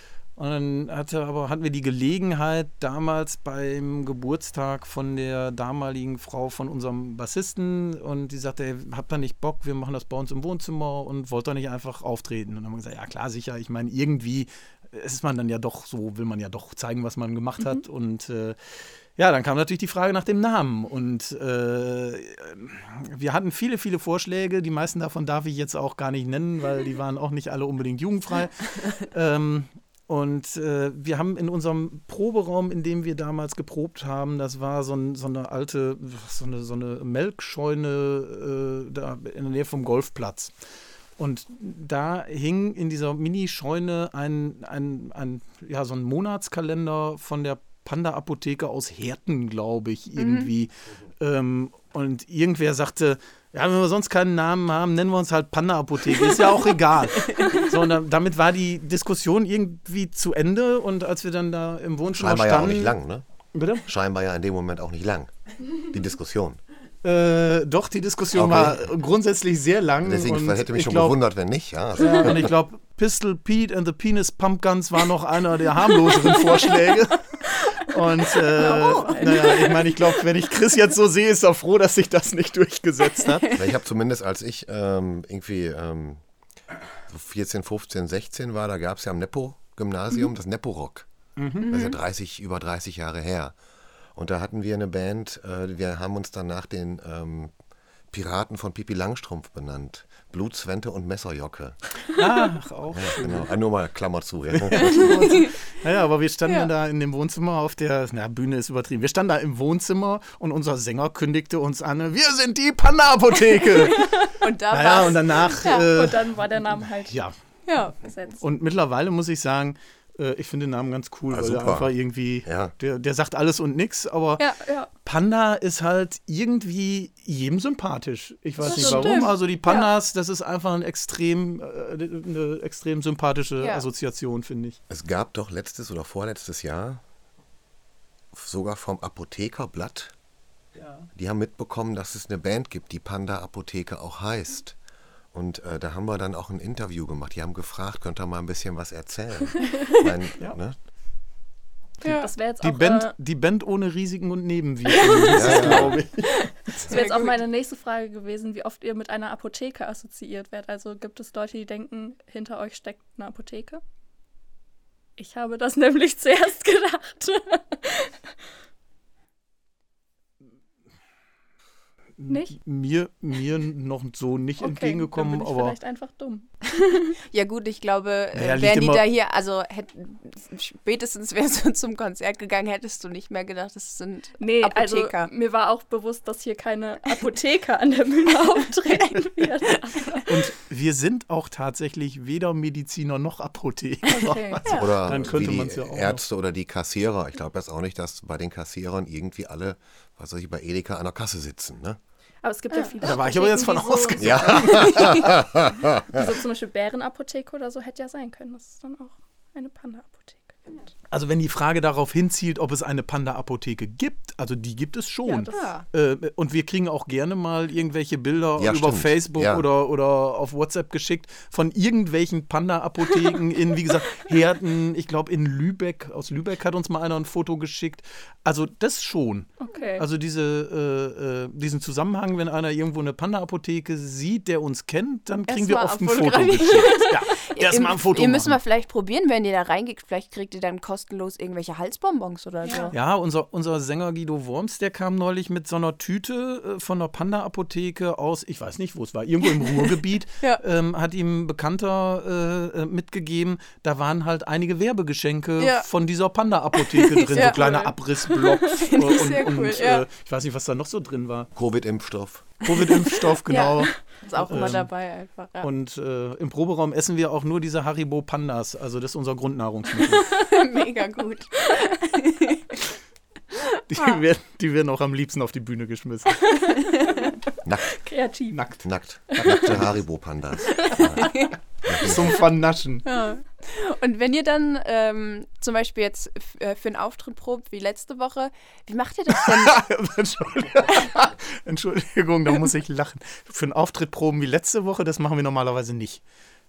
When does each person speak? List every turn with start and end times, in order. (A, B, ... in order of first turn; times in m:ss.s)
0:00.4-0:18.6 A
0:19.2-0:40.5 A
0:41.2-1:03.0 A
0:50.2-0:50.5 B
1:02.1-1:03.2 C
1:03.5-1:03.9 A
1:03.9-1:06.6 C
1:07.0-1:11.2 A
1:08.3-1:08.9 C
1:10.0-1:12.5 C
1:12.0-1:23.5 A
1:18.5-1:19.7 B
1:18.8-1:19.5 D
1:23.5-1:26.2 C
1:27.1-1:31.1 C
1:31.4-1:31.7 A
1:31.6-1:32.0 B
1:31.7-1:33.6 C
1:34.2-1:37.5 C
1:38.1-1:41.8 C
1:42.1-1:43.5 A
1:42.9-1:45.1 C
1:44.5-1:56.3 A
1:53.9-1:55.9 B
1:55.7-1:57.2 D
1:57.1-1:57.3 A
1:57.7-1:58.0 B
1:58.0-1:58.4 D
1:58.4-2:04.5 A
2:01.3-2:01.9 C
2:02.4-2:02.7 C
2:04.4-2:04.9 D
2:05.0-2:14.8 A
2:08.6-2:09.9 D
2:08.6-2:09.3 B
2:13.6-2:13.8 B
2:14.9-2:17.0 C
2:18.3-2:20.1 C
2:20.8-2:21.1 A
2:21.2-2:24.8 C
2:25.3-2:30.8 C
2:32.0-2:32.3 B
2:32.0-2:33.1 D
2:32.6-2:36.6 A
2:34.9-2:37.4 B
2:35.3-2:36.0 C
2:36.9-2:43.8 D
2:45.2-2:48.2 D
2:52.2-2:55.8 A
2:54.6-2:57.2 D
2:57.3-3:05.3 B
2:58.4-2:59.1 A
3:04.4-3:10.3 D
3:10.2-3:16.2 A
3:14.1-3:14.6 D
3:14.6-3:14.9 B
3:14.6-3:22.0 C
3:22.4-3:25.4 D
3:23.0-3:25.3 A
3:24.2-3:26.4 C
3:26.1-3:30.9 D
3:31.1-3:58.6 A
3:35.2-3:35.7 D
3:35.5-3:35.8 B
3:38.6-3:39.7 C
3:49.6-3:50.0 D
3:55.5-4:02.9 B
4:02.6-4:02.9 D
4:02.9-4:21.5 A
4:09.6-4:10.6 B
4:15.6-4:15.9 B
4:16.8-4:20.0 B
4:21.6-4:22.5 C
4:22.6-4:24.9 A
4:22.9-4:25.7 B
4:25.6-4:30.4 A
4:30.3-4:32.8 B
4:33.9-4:36.5 A
4:36.5-4:37.4 D
4:37.6-4:38.0 C
4:37.9-4:38.6 D
4:38.5-4:39.8 A
4:38.8-4:42.4 C
4:39.3-4:39.8 D
4:40.8-4:41.5 B
4:40.8-4:41.3 D
4:41.9-4:43.1 A
4:43.0-4:49.8 B
4:49.3-4:56.2 A